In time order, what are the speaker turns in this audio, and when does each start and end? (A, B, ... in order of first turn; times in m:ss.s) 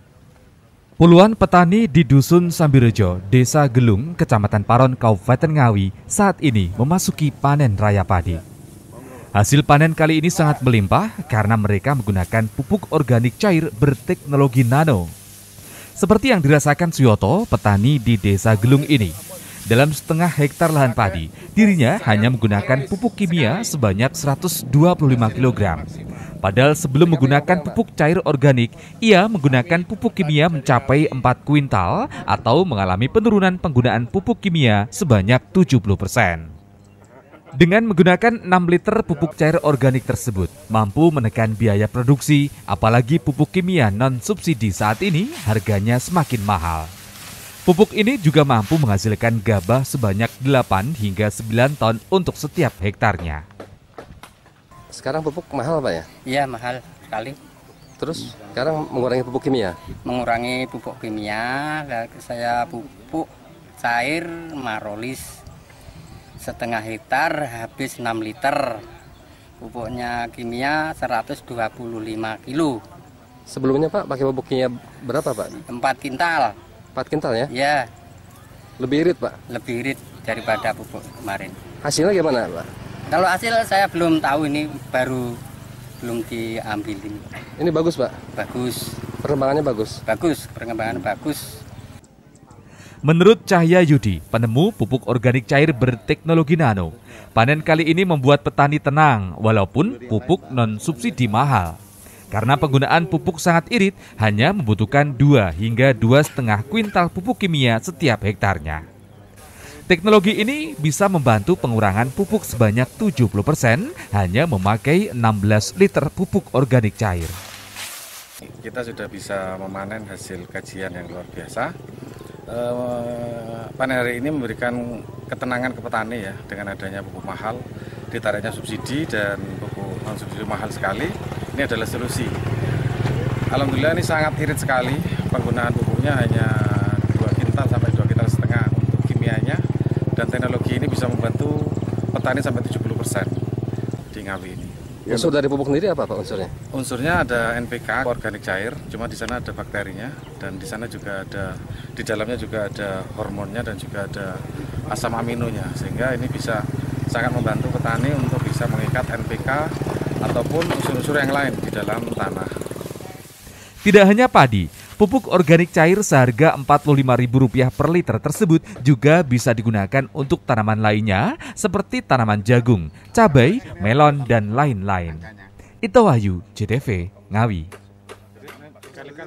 0:01.0-0:08.4 A
0:09.4-0:15.1 A
0:16.0-0:19.2 A
0:19.7-0:25.9 A
0:26.4-0:36.5 A
0:27.2-0:27.8 B
0:37.6-0:46.9 A
0:47.7-0:53.4 A
0:55.0-0:56.1 B
0:56.3-0:57.4 C
0:58.0-0:59.8 B
1:00.0-1:05.3 C
1:06.4-1:08.8 C
1:09.6-1:12.8 C
1:13.5-1:15.6 B
1:15.7-1:16.6 C
1:17.0-1:17.5 B
1:17.5-1:17.9 C
1:18.8-1:19.4 B
1:19.5-1:21.6 C
1:21.8-1:22.7 B
1:23.1-1:25.3 C
1:26.0-1:27.2 C
1:27.6-1:28.2 B
1:28.4-1:29.0 C
1:29.2-1:30.0 B
1:30.1-1:31.4 C
1:33.0-1:41.8 A
1:42.3-1:48.8 A
1:49.9-1:57.4 A
1:58.4-2:01.7 D
2:02.5-2:07.6 D
2:08.1-2:12.3 D
2:13.5-2:19.6 D
2:20.2-2:21.6 D
2:22.1-2:23.4 D
2:24.1-2:24.7 D
2:25.1-2:26.5 B
2:26.7-2:34.4 D
2:34.9-2:39.7 D
2:40.2-2:42.5 D
2:43.8-2:55.3 A
2:55.8-2:57.7 A